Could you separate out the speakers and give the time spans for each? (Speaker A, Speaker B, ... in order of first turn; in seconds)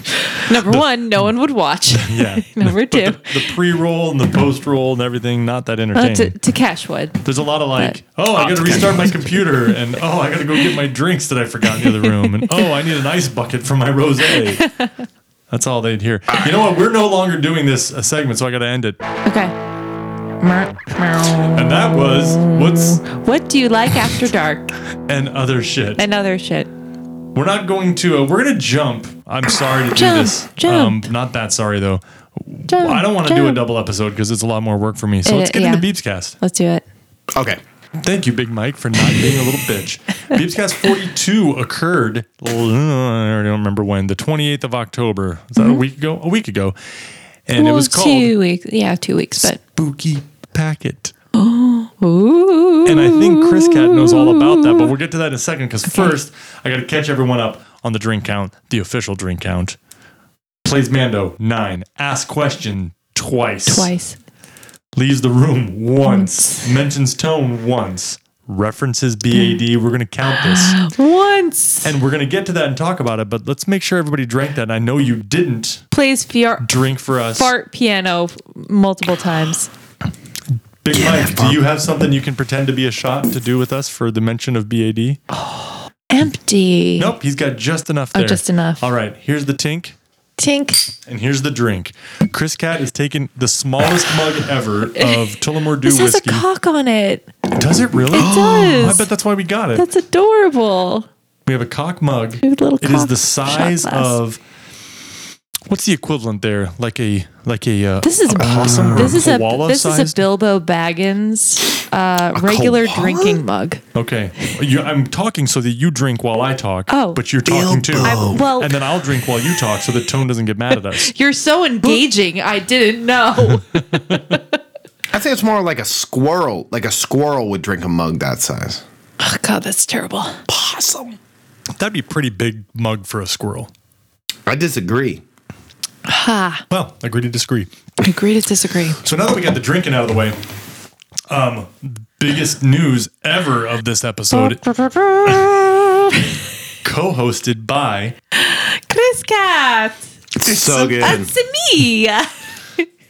Speaker A: 0.2-3.5, 5.9-7.2, 11.8-12.7, 14.3-14.9, 19.2-19.5, 20.4-24.7, 26.0-26.7, 29.9-31.1, 32.7-33.6, 35.2-35.9, 36.4-36.8, 45.6-45.8, 47.5-49.6, 51.3-54.9, 55.9-56.1, 63.7-64.2, 66.0-66.7, 69.3-69.6, 70.3-71.9, 75.9-76.7, 77.3-79.7, 85.3-87.1, 88.1-88.8, 90.4-90.8, 95.0-95.2, 95.8-97.3, 98.1-99.0, 99.7-101.1, 102.4-104.2, 108.0-113.8, 116.9-117.2, 118.0-118.7, 121.0-124.4, 129.2-130.4, 136.1-136.6, 138.0-139.0, 144.3-146.3, 148.3-152.8
Speaker B: 0.5-1.3, 1.9-6.3, 7.2-14.7, 15.5-19.0, 21.4-23.0, 25.1-26.0, 27.3-36.4, 38.0-46.8, 47.5-48.3, 49.4-51.1, 52.8-59.8, 60.6-63.9, 64.9-70.8, 71.8-75.8, 76.6-77.5, 80.8-85.2, 87.0-90.0, 91.1-96.4, 97.6-99.8, 101.5-104.4, 105.7-110.2, 113.9-121.1, 123.5-124.4, 131.8-133.7, 136.7-137.7, 139.0-140.4, 141.3-144.6, 146.8-148.2
Speaker C: 8.3-9.3, 16.3-16.6, 37.3-37.6, 81.0-81.5, 98.1-98.9, 108.4-109.2, 112.4-113.4, 117.4-118.5, 125.1-128.8, 130.5-131.2, 134.4-135.2, 150.4-151.3